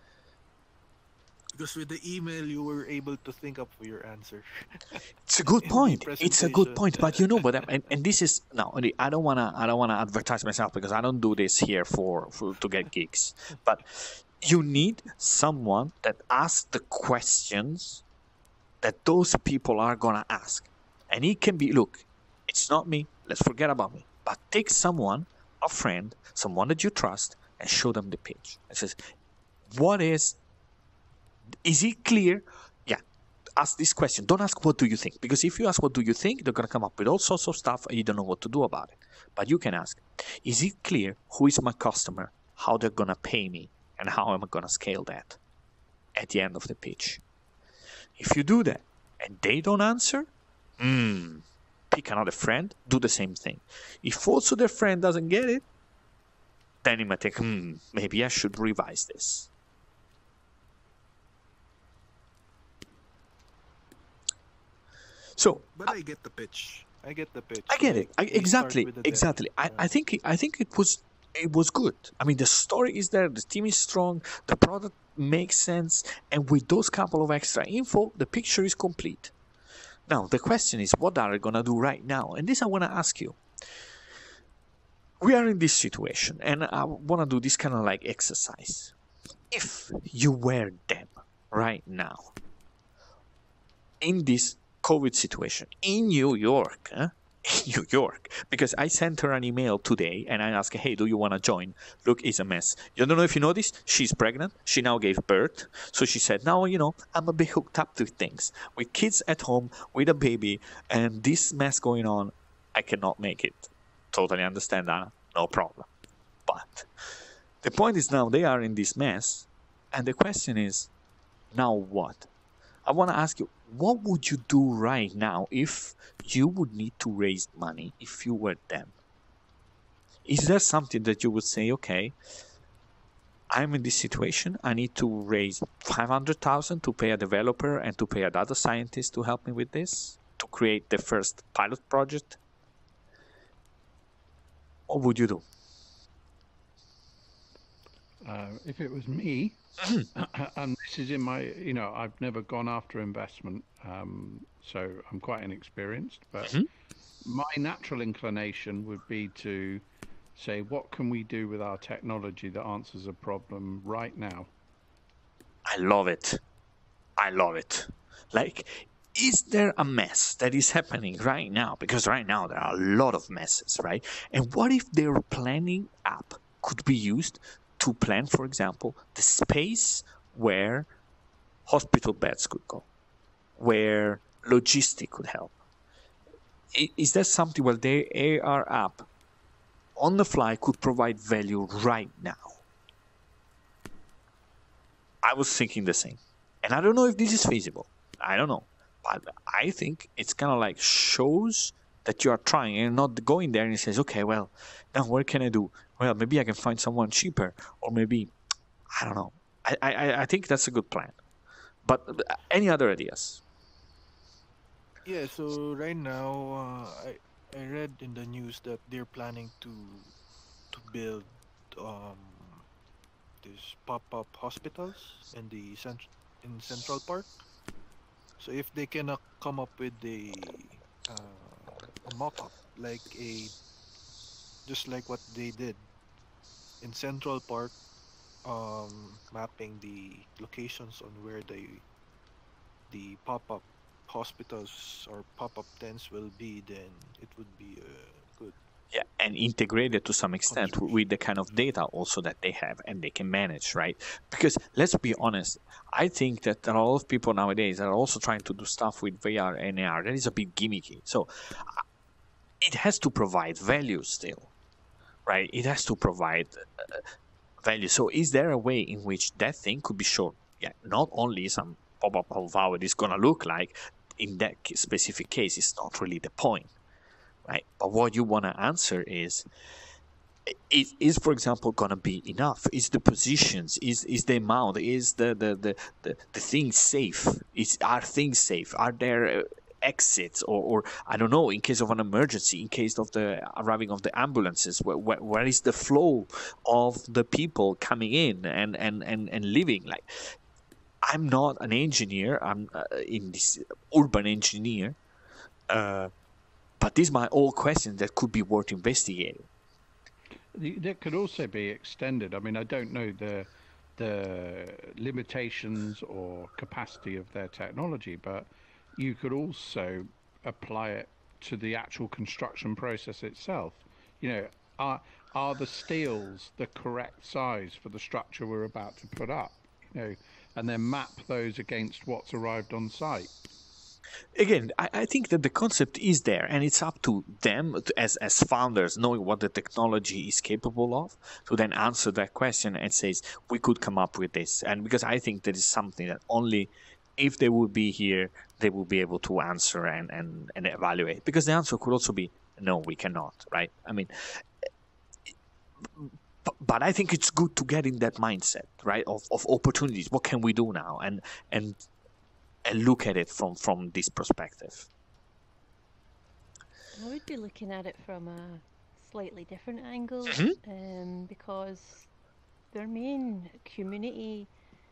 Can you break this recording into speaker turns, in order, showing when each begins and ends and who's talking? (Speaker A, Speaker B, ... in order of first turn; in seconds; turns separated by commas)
Speaker A: 1.5-5.0, Speaker B: 5.3-18.0, Speaker A: 5.6-7.5, Speaker B: 18.8-29.0, Speaker B: 29.7-30.4, Speaker B: 31.6-33.0, Speaker B: 33.6-45.4, Speaker B: 46.1-47.2, Speaker B: 48.2-55.6, Speaker B: 56.8-59.5, Speaker B: 65.4-65.9, Speaker A: 65.7-69.9, Speaker B: 67.7-79.3, Speaker B: 80.1-83.4, Speaker B: 85.2-88.9, Speaker B: 89.5-92.3, Speaker B: 94.0-115.9, Speaker B: 116.5-116.9, Speaker B: 117.6-120.9, Speaker B: 121.5-122.3, Speaker B: 122.8-128.9, Speaker B: 130.2-132.1, Speaker B: 133.5-142.4, Speaker B: 144.9-145.4, Speaker C: 148.2-149.6, Speaker B: 149.8-150.1, Speaker C: 150.1-156.6, Speaker C: 157.2-159.8, Speaker C: 160.3-164.5, Speaker B: 165.7-166.4, Speaker B: 167.2-180.9, Speaker B: 181.7-182.9, Speaker B: 183.6-185.5, Speaker B: 186.7-189.1, Speaker B: 189.9-192.6, Speaker B: 195.2-208.3, Speaker B: 208.9-211.2, Speaker B: 211.8-213.4, Speaker A: 215.0-220.1, Speaker A: 220.7-222.7, Speaker A: 223.4-227.3, Speaker A: 228.4-233.5, Speaker A: 234.6-235.9, Speaker A: 236.8-237.7, Speaker A: 238.4-241.8, Speaker A: 242.9-248.6, Speaker B: 248.9-261.8, Speaker A: 250.5-251.0, Speaker B: 262.6-264.5, Speaker B: 265.2-267.1, Speaker B: 267.6-276.7, Speaker B: 277.4-279.4, Speaker B: 280.5-300.3, Speaker B: 301.0-305.0, Speaker B: 305.7-306.1, Speaker B: 306.8-309.5, Speaker C: 310.5-333.3, Speaker B: 334.4-354.6, Speaker B: 355.8-361.9, Speaker B: 362.6-364.9, Speaker D: 366.9-372.1, Speaker B: 370.2-370.6, Speaker D: 372.7-374.5